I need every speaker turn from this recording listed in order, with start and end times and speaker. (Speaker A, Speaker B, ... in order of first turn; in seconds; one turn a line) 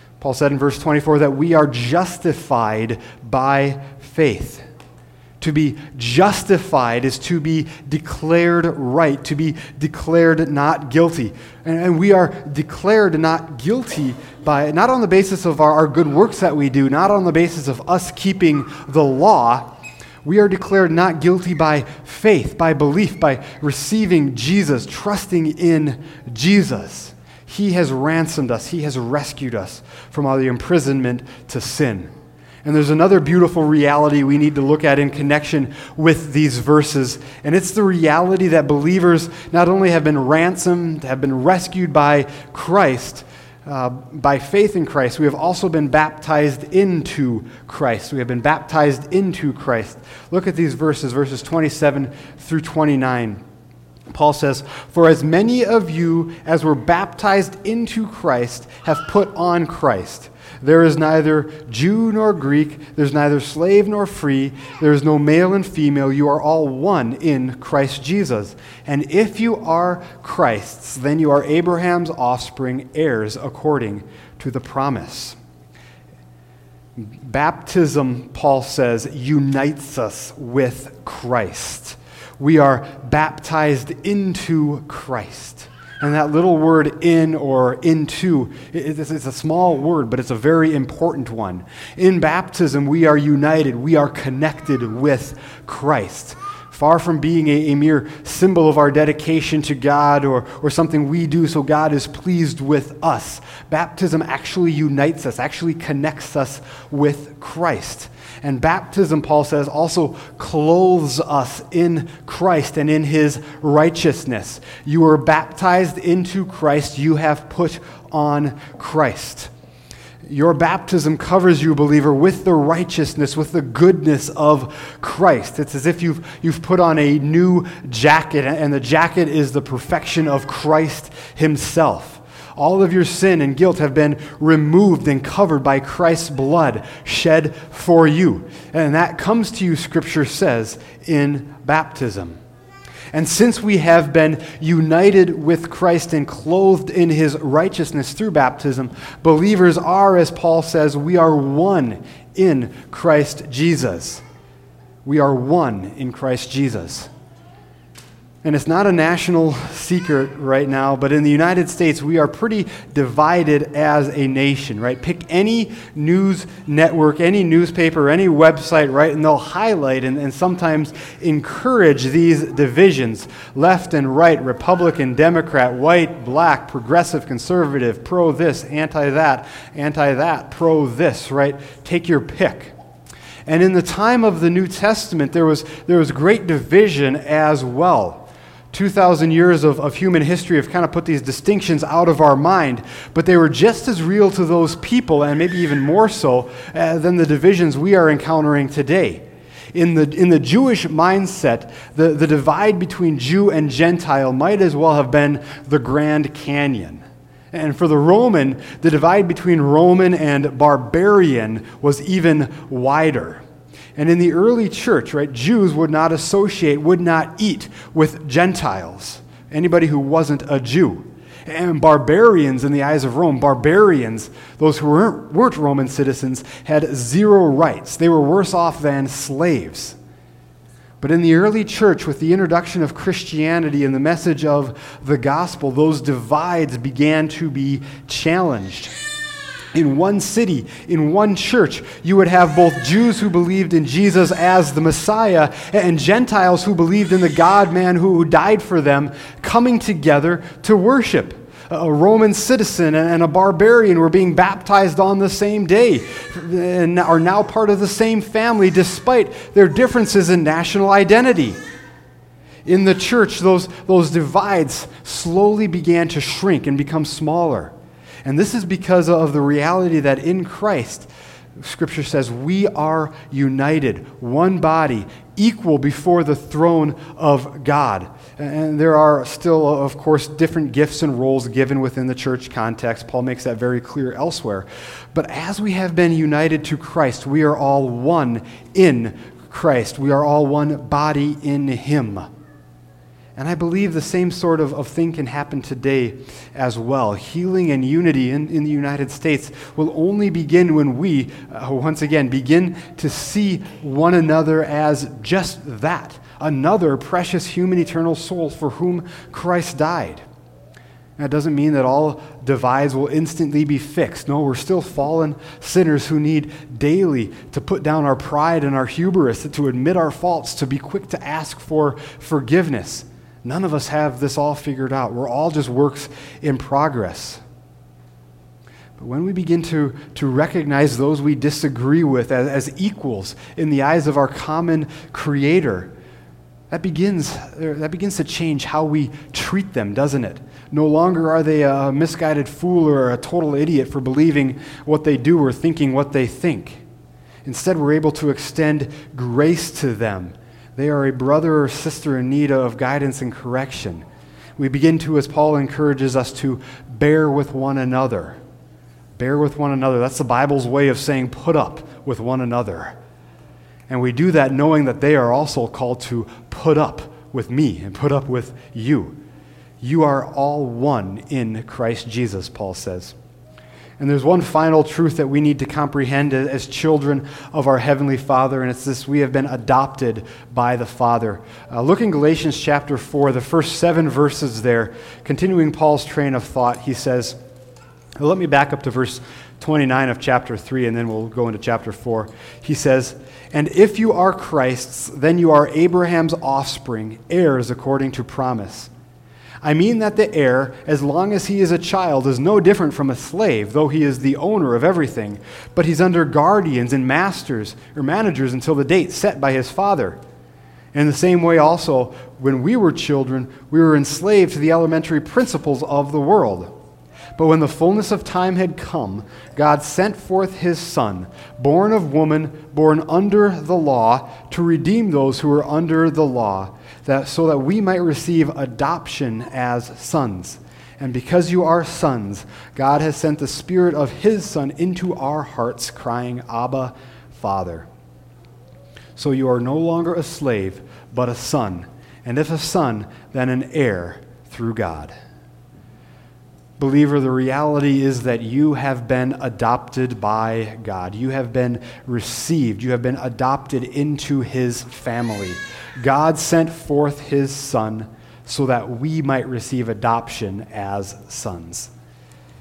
Speaker A: 0.2-4.6
Speaker A: 5.4-19.7
Speaker A: 20.2-32.1
Speaker A: 32.6-53.4
Speaker A: 54.1-75.4
Speaker A: 77.0-119.5
Speaker A: 120.2-142.4
Speaker A: 143.1-154.2
Speaker A: 155.0-157.1
Speaker A: 158.4-182.7
Speaker A: 183.4-213.4
Speaker A: 213.9-230.0
Speaker A: 231.0-238.9
Speaker A: 239.7-261.6
Speaker A: 262.6-267.7
Speaker A: 268.2-292.3
Speaker A: 293.4-310.2
Speaker A: 311.2-327.4
Speaker A: 329.0-335.9
Speaker A: 336.7-346.8
Speaker A: 347.4-354.0
Speaker A: 354.6-358.4
Speaker A: 359.2-362.9
Speaker A: 363.9-369.2
Speaker A: 369.8-373.1
Speaker A: 374.0-387.4
Speaker A: 388.2-398.9
Speaker A: 399.6-410.2
Speaker A: 410.9-416.7
Speaker A: 417.4-437.9
Speaker A: 439.1-445.1
Speaker A: 446.8-461.9